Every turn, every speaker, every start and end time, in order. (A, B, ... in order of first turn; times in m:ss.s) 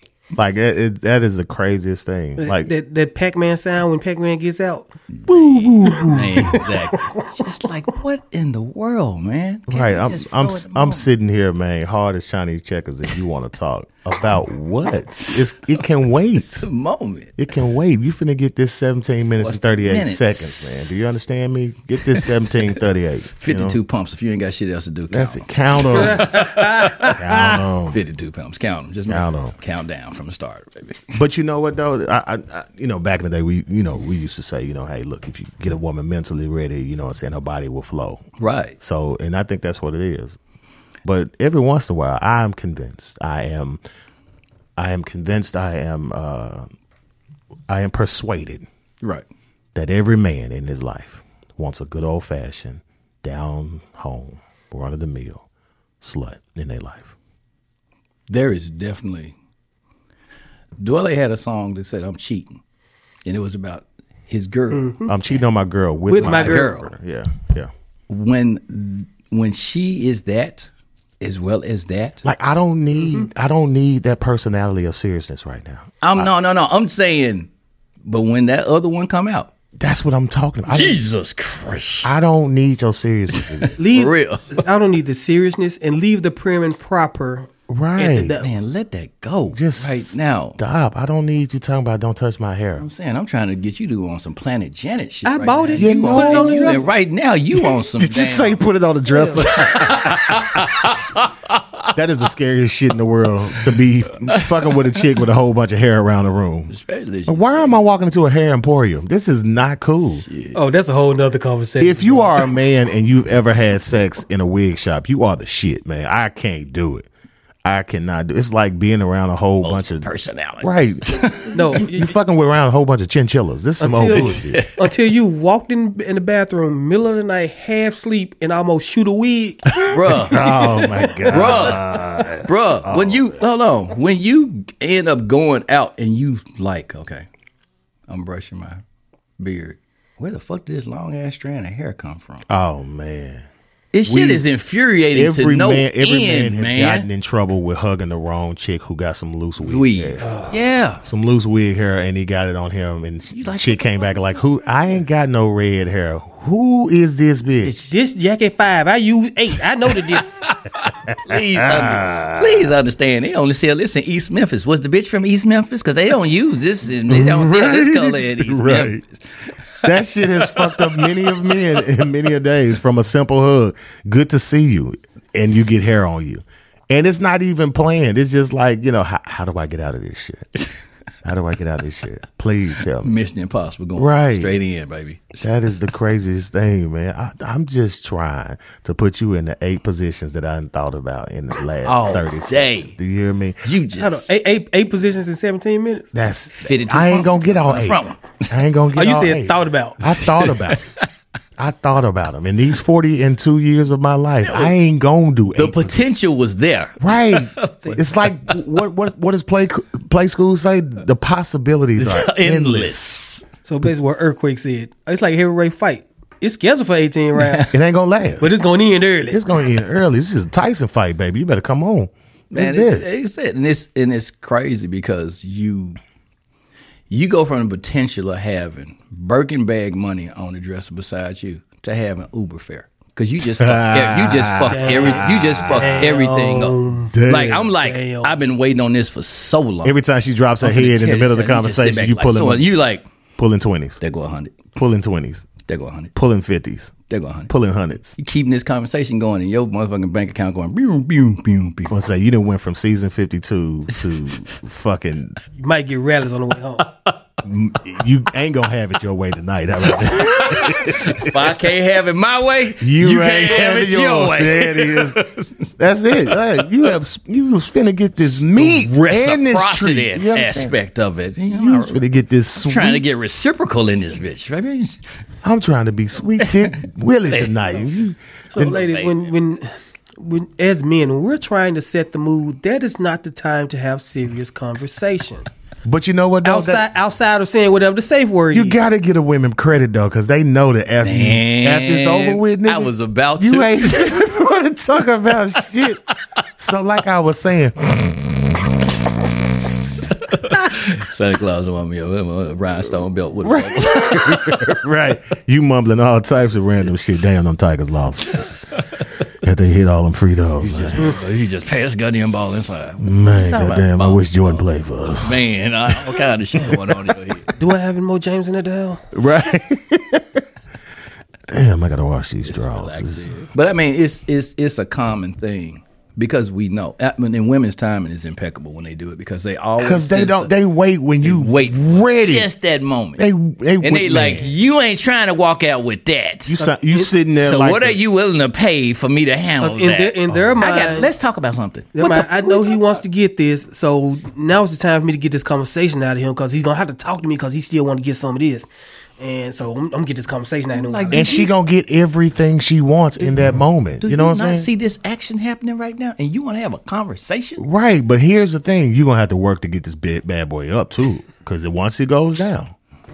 0:00.3-0:02.7 A
0:02.4-0:04.9 B
0:05.2-0:11.1 C
0:05.3-0:06.7 A
0:05.9-0:07.5 B
0:09.7-0:16.7 A
0:15.2-0:17.4 C
0:17.4-0:23.8 A
0:19.4-0:20.9 C
0:22.0-0:22.7 C
0:23.4-0:31.2 C
0:25.1-0:26.3 A
0:25.9-0:27.2 B
0:27.1-0:28.0 A
0:29.1-0:29.6 A
0:31.2-0:38.2 A
0:38.4-0:38.8 C
0:38.8-0:40.4 A
0:41.0-0:43.8 A
0:44.8-0:46.7 A
0:47.7-0:48.7 A
0:49.8-0:55.4 A
0:56.0-0:57.1 A
0:58.3-0:59.3 C
1:00.8-1:02.6 C
1:03.2-1:04.9 C
1:04.7-1:05.1 B
1:05.1-1:07.7 A
1:06.1-1:06.7 B
1:06.2-1:06.9 C
1:08.1-1:12.2 C
1:12.2-1:16.3 A
1:16.0-1:17.5 C
1:18.0-1:19.5 C
1:19.8-1:21.0 A
1:20.7-1:22.1 C
1:22.0-1:23.8 A
1:23.3-1:24.6 C
1:23.8-1:28.5 B
1:27.7-1:28.4 A
1:28.4-1:30.6 C
1:29.5-1:32.9 A
1:32.8-1:38.6 C
1:35.2-1:36.9 B
1:35.8-1:36.8 A
1:37.6-1:41.1 A
1:39.1-1:39.4 B
1:39.4-1:41.7 C
1:41.9-1:46.8 A
1:44.3-1:44.9 C
1:46.7-1:47.8 C
1:47.3-1:50.3 A
1:50.2-1:50.6 C
1:50.5-1:52.4 B
1:51.8-1:57.1 A
1:57.6-2:00.1 A
1:59.6-2:01.8 C
2:00.6-2:04.6 A
2:01.5-2:02.1 B
2:03.8-2:11.5 B
2:04.1-2:04.9 C
2:09.7-2:13.4 A
2:09.9-2:17.3 C
2:18.1-2:18.8 C
2:19.4-2:22.4 C
2:22.5-2:23.5 A
2:23.9-2:27.1 C
2:24.0-2:24.4 A
2:25.1-2:30.4 A
2:29.6-2:31.0 C
2:30.2-2:30.6 B
2:31.0-2:37.8 A
2:33.3-2:34.9 C
2:37.6-2:37.9 C
2:37.8-2:40.3 B
2:40.2-2:49.2 C
2:41.1-2:42.7 A
2:47.1-2:49.0 A
2:49.8-2:51.4 C
2:49.8-3:00.5 A
3:01.2-3:03.2 A
3:03.0-3:05.5 C
3:04.0-3:04.6 A
3:05.4-3:13.7 A
3:11.8-3:13.0 C
3:13.6-3:14.3 C
3:14.0-3:16.1 B
3:16.1-3:20.9 A
3:16.6-3:18.6 C
3:19.0-3:20.3 B
3:20.4-3:21.0 C
3:21.6-3:26.1 A
3:24.4-3:24.8 C
3:25.6-3:28.6 C
3:27.0-3:33.1 A
3:32.0-3:33.4 C
3:33.6-3:37.7 B
3:37.4-3:37.7 C
3:37.7-3:38.5 A
3:38.4-3:39.4 B
3:39.3-3:43.1 A
3:42.5-3:46.0 C
3:47.1-4:00.0 C
3:53.6-3:56.0 A
3:54.7-3:58.4 B
3:57.1-3:57.7 A
3:59.8-4:02.7 A
4:00.6-4:03.1 C
4:03.4-4:04.0 A
4:04.0-4:04.6 C
4:04.8-4:05.5 A
4:05.6-4:06.1 C
4:06.2-4:06.9 A
4:07.1-4:07.5 C
4:07.5-4:08.2 A
4:08.2-4:12.0 C
4:11.9-4:15.4 A
4:13.9-4:14.6 C
4:15.6-4:16.9 B
4:17.4-4:21.4 A
4:19.9-4:25.5 C
4:22.8-4:25.2 A
4:25.8-4:30.8 A
4:28.2-4:35.0 C
4:31.5-4:33.1 A
4:35.4-4:38.8 A
4:37.3-4:37.7 C
4:38.5-4:39.3 C
4:38.6-4:45.5 B
4:45.8-4:46.8 A
4:46.4-4:48.8 B
4:48.5-4:56.0 A
4:51.0-4:54.2 C
4:56.6-5:00.5 A
4:59.9-5:04.8 C
5:03.4-5:08.5 A
5:08.8-5:09.0 C
5:09.4-5:11.2 A
5:10.6-5:17.5 C
5:13.0-5:17.5 A
5:17.6-5:19.0 B
5:19.1-5:20.4 A
5:21.5-5:23.3 A
5:22.4-5:30.5 C
5:29.8-5:32.5 A
5:31.2-5:33.2 C
5:33.2-5:34.5 A
5:33.8-5:36.6 C
5:36.5-5:38.0 A
5:36.6-5:37.1 B
5:37.3-5:43.0 C
5:39.6-5:41.1 B
5:40.3-5:40.7 A
5:42.0-5:48.7 B
5:49.2-5:51.5 B
5:50.7-5:51.6 C
5:51.1-5:54.7 A
5:54.0-5:57.6 C
5:57.6-6:02.7 A